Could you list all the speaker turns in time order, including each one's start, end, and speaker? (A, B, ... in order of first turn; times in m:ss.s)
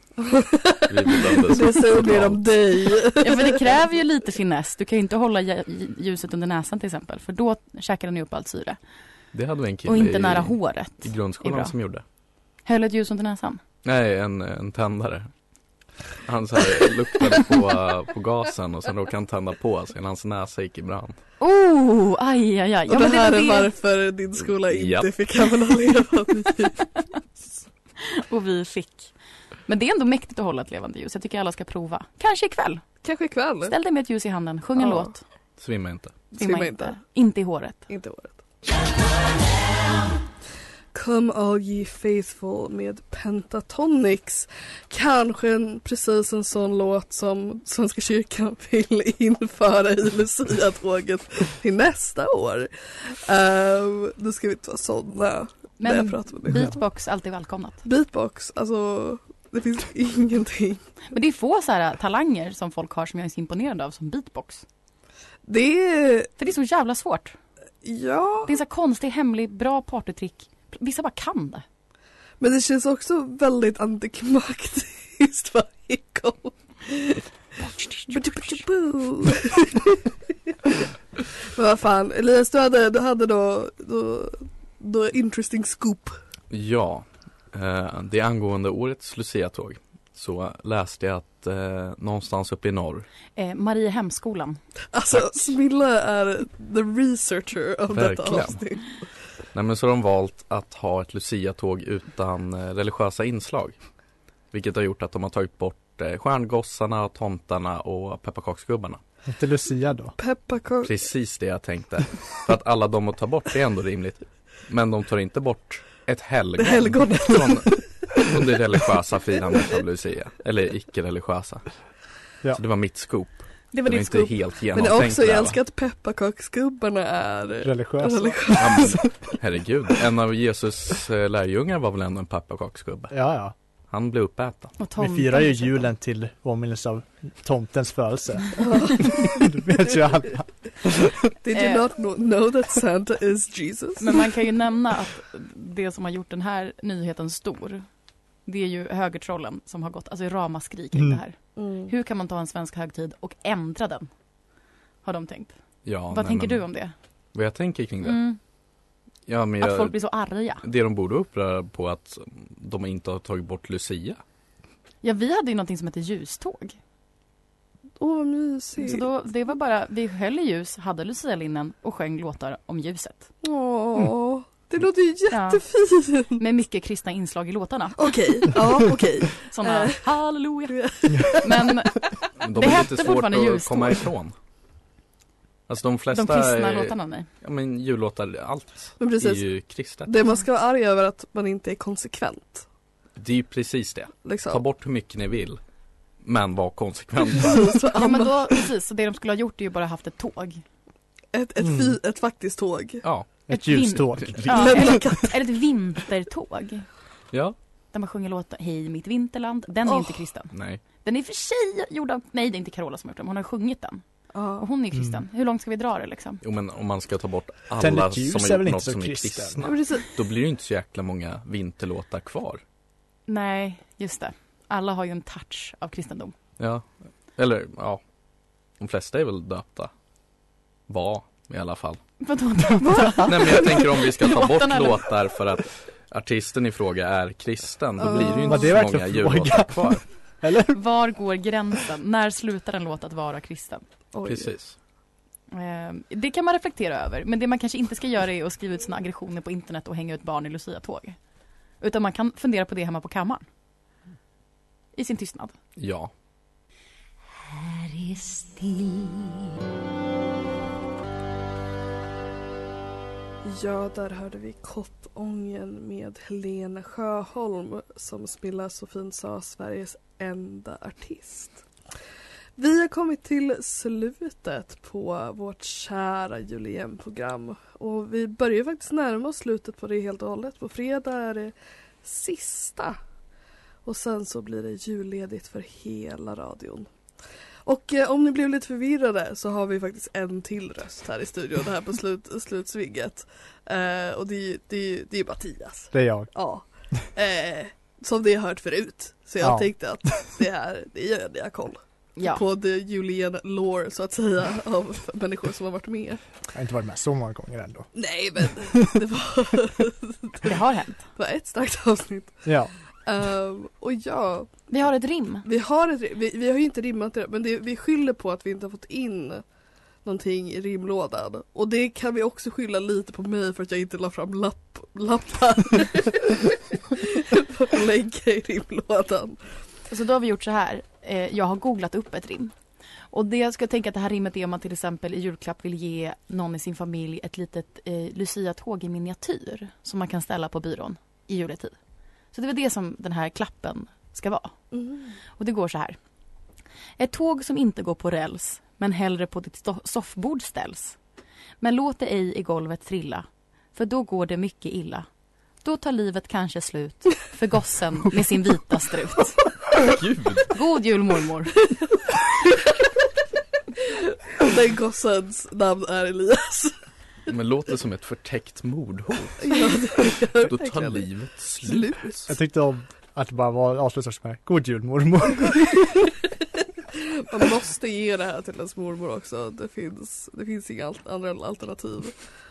0:00.2-0:03.7 A
0:00.9-0:02.4 B
0:03.2-0:08.8 C
0:09.3-0:12.0 B
0:09.8-0:11.7 C
0:12.6-0:13.6 C
0:13.8-0:15.3 B
0:16.2-0:21.2 B
0:21.4-0:23.7 C
0:22.9-0:26.9 A
0:24.7-0:25.1 B
0:28.0-0:29.1 C
0:29.7-0:32.8 C
0:33.0-0:33.7 A
0:33.6-0:35.2 C
0:34.8-0:35.1 A
0:35.6-0:36.1 B
0:36.3-0:37.0 A
0:36.4-0:37.8 C
0:37.9-0:38.4 A
0:40.9-0:56.8 A
0:55.8-0:57.8 C
0:57.8-1:00.8 A
1:01.1-1:04.6 C
1:05.4-1:06.3 A
1:06.4-1:07.4 C
1:07.8-1:08.5 A
1:08.5-1:11.6 C
1:12.4-1:17.2 A
1:17.6-1:18.6 C
1:18.1-1:20.7 A
1:21.5-1:26.2 A
1:26.5-1:33.1 B
1:33.4-1:34.6 C
1:34.9-1:38.9 A
1:37.9-1:38.6 B
1:39.5-1:43.8 B
1:44.5-1:49.0 B
1:49.3-1:50.2 D
1:50.2-1:51.0 A
1:50.8-2:01.7 B
1:56.6-1:58.3 A
2:02.5-2:05.6 B
2:03.7-2:04.3 C
2:04.7-2:09.4 A
2:07.6-2:08.9 D
2:08.6-2:13.1 B
2:13.1-2:13.5 D
2:13.9-2:14.7 B
2:14.8-2:15.9 C
2:15.0-2:21.1 D
2:18.6-2:19.3 A
2:21.4-2:24.2 A
2:21.5-2:21.8 C
2:24.0-2:27.8 C
2:28.4-2:34.1 C
2:31.6-2:31.9 A
2:35.0-2:35.5 C
2:35.8-2:36.6 B
2:36.1-2:36.9 C
2:37.3-2:38.2 B
2:38.0-2:38.4 C
2:39.3-2:40.0 B
2:39.6-2:40.6 C
2:40.6-2:44.2 B
2:45.0-2:46.8 C
2:48.0-2:49.0 A
2:48.8-2:53.3 C
2:53.4-2:56.4 A
2:55.3-2:55.6 C
2:56.3-2:58.6 C
2:58.0-3:00.1 A
2:59.4-3:04.0 C
3:00.7-3:02.0 A
3:02.4-3:04.3 B
3:05.7-3:10.1 B
3:06.1-3:07.3 C
3:09.0-3:09.5 A
3:10.0-3:12.6 A
3:13.2-3:15.6 B
3:14.2-3:14.6 A
3:16.2-3:17.7 B
3:17.3-3:18.6 A
3:18.0-3:20.6 C
3:21.3-3:23.0 A
3:21.6-3:21.9 D
3:23.0-3:23.3 B
3:23.5-3:25.0 D
3:23.5-3:26.9 C
3:24.2-3:24.6 B
3:24.5-3:25.4 A
3:27.3-3:27.6 B
3:27.9-3:30.5 C
3:29.8-3:30.2 A
3:30.5-3:30.8 B
3:31.0-3:34.0 C
3:34.3-3:34.6 A
3:34.6-3:36.4 C
3:34.9-3:35.2 D
3:36.4-3:42.6 B
3:37.8-3:39.7 D
3:39.6-3:40.1 A
3:43.3-3:46.3 C
3:46.6-3:48.0 B
3:48.8-3:49.9 B
3:50.9-3:52.0 B
3:52.2-3:55.0 C
3:52.9-3:53.6 A
3:53.2-4:00.0 B
3:58.0-3:58.8 A
3:58.2-4:00.8 D
4:00.7-4:03.8 C
4:04.1-4:04.5 A
4:04.2-4:04.8 B
4:05.5-4:11.2 C
4:11.8-4:13.4 C
4:15.0-4:15.5 C
4:15.8-4:16.1 B
4:17.5-4:19.3 C
4:23.4-4:31.6 A
4:32.6-4:41.5 A
4:42.0-4:43.0 A
4:43.8-4:46.9 A
4:47.6-5:06.2 A
4:55.9-4:56.3 D
4:59.4-4:59.7 D
5:02.2-5:02.4 C
5:06.5-5:07.9 D
5:07.9-5:10.5 A
5:10.4-5:11.0 C
5:11.2-5:12.5 A
5:12.4-5:12.7 D
5:13.0-5:14.6 A
5:14.7-5:15.4 C
5:15.4-5:19.4 A
5:20.0-5:29.4 A
5:29.9-5:32.5 C
5:33.1-5:41.7 C
5:42.3-5:44.5 C
5:44.7-5:45.1 A
5:45.4-5:46.0 C
5:47.0-5:51.0 C
5:51.6-5:55.1 C
5:55.6-5:59.4 C
5:59.8-6:00.6 B
6:00.5-6:01.6 C
6:03.8-6:06.8 A
6:07.3-6:09.5 B
6:09.4-6:12.3 A
6:10.4-6:11.9 B
6:12.3-6:16.0 D
6:17.3-6:22.1 A